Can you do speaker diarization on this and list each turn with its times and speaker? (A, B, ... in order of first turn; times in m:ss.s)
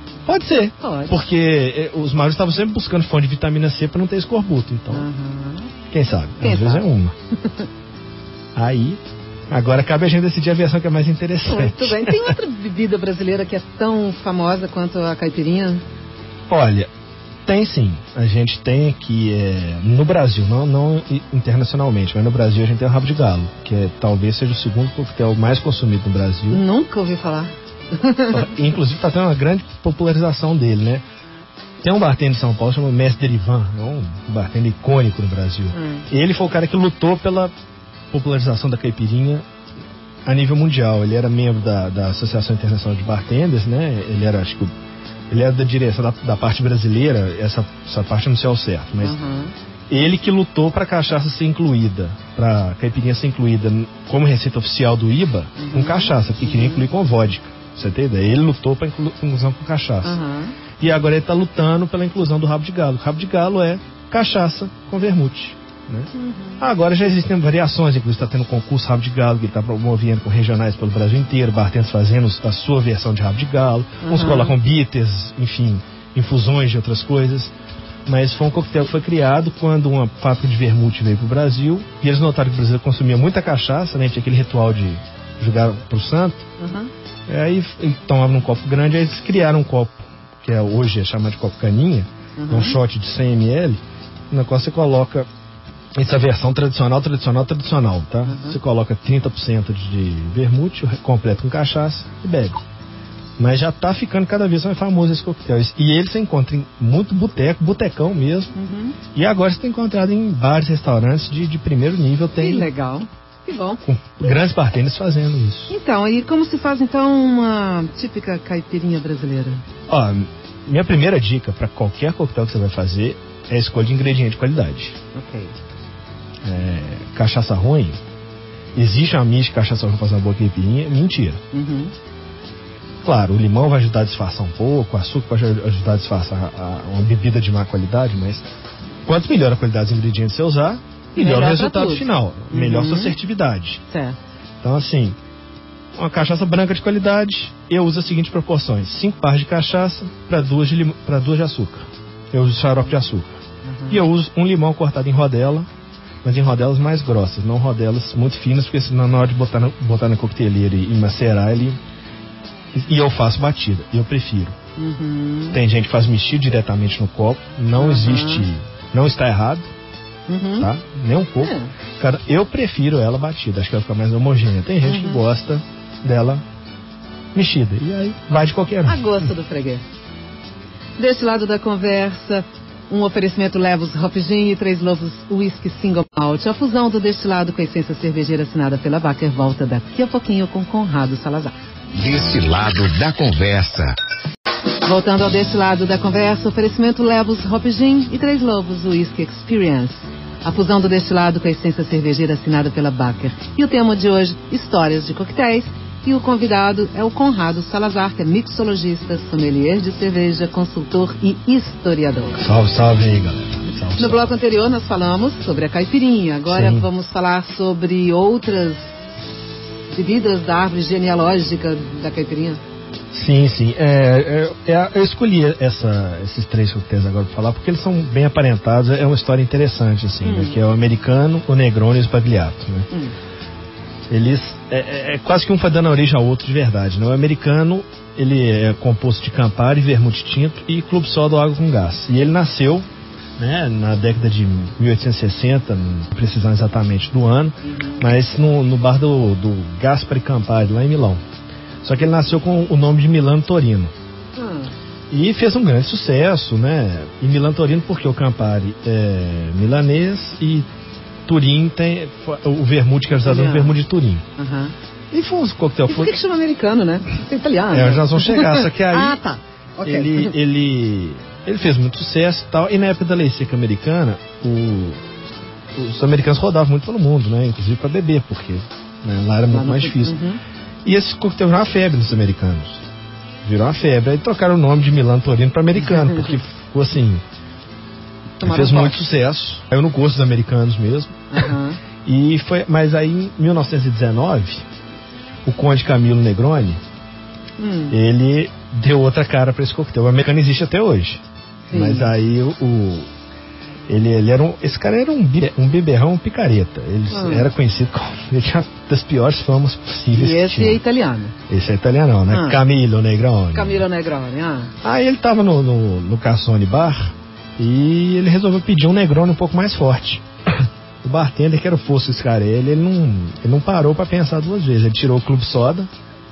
0:00.2-0:05.1 A
0:00.8-0:01.2 B
0:04.9-0:05.7 B
0:05.9-0:07.1 A
0:06.4-0:06.8 B
0:07.4-0:07.6 B
0:08.5-0:12.3 A
0:11.4-0:15.8 B
0:16.5-0:16.9 A
0:17.4-0:26.6 A
0:26.5-0:28.5 B
0:28.3-0:31.0 A
0:31.8-0:37.5 A
0:35.7-0:36.1 B
0:38.1-0:39.4 A
0:40.2-0:44.7 A
0:45.3-0:49.2 A
0:49.0-0:49.5 B
0:49.9-1:00.2 A
0:55.6-0:56.9 B
1:00.0-1:00.6 B
1:00.8-1:17.5 A
1:06.1-1:06.6 B
1:14.0-1:14.5 B
1:18.0-1:26.4 A
1:26.6-1:26.9 B
1:27.3-1:35.3 A
1:32.4-1:32.8 B
1:35.9-1:42.6 A
1:38.2-1:38.6 B
1:43.4-1:48.5 A
1:48.5-1:49.0 B
1:49.1-1:52.7 A
1:52.4-1:53.8 B
1:53.8-1:55.7 A
1:55.7-1:59.6 B
1:59.9-2:05.0 A
2:05.1-2:05.5 B
2:06.4-2:08.0 A
2:08.7-2:11.4 A
2:11.5-2:11.9 B
2:13.0-2:18.5 A
2:19.0-2:23.8 A
2:21.1-2:23.2 B
2:23.9-2:24.2 B
2:24.6-2:25.2 A
2:26.0-2:33.3 A
2:33.6-2:34.0 B
2:33.9-2:35.7 A
2:36.2-2:41.8 A
2:42.7-2:44.6 A
2:44.8-2:45.6 B
2:45.5-2:49.7 A
2:47.8-2:48.5 B
2:50.3-2:50.7 B
2:50.6-2:56.4 A
2:51.4-2:51.7 B
2:54.8-2:55.2 B
2:57.3-2:59.3 A
2:58.8-2:59.8 B
3:01.0-3:11.5 B
3:11.9-3:14.0 C
3:14.8-3:32.4 B
3:32.4-3:34.3 A
3:34.0-3:39.1 B
3:36.5-3:36.9 A
3:39.9-3:42.6 B
3:43.1-3:52.9 A
3:50.2-3:50.6 B
3:54.1-4:11.2 A
4:07.6-4:08.0 B
4:11.8-4:13.9 A
4:14.3-4:14.7 B
4:15.1-4:20.7 A
4:21.2-4:24.2 A
4:23.1-4:23.8 B
4:24.4-4:24.7 B
4:25.1-4:26.1 A
4:25.9-4:30.3 B
4:27.7-4:29.2 A
4:29.8-4:35.0 A
4:35.7-4:40.2 A
4:39.5-4:40.4 B
4:40.8-4:42.8 A
4:43.4-4:47.2 A
4:45.8-4:46.3 B
4:48.4-4:49.0 B
4:48.4-4:51.5 A
4:51.3-4:51.8 B
4:52.0-4:54.6 A
4:55.4-4:56.8 A
4:57.6-4:58.0 B
4:57.9-5:03.1 A
5:01.7-5:02.1 B
5:03.9-5:10.8 A
5:07.1-5:07.5 B
5:10.1-5:11.4 B
5:11.5-5:13.8 A
5:12.3-5:12.6 B
5:13.5-5:14.7 B
5:14.8-5:25.9 A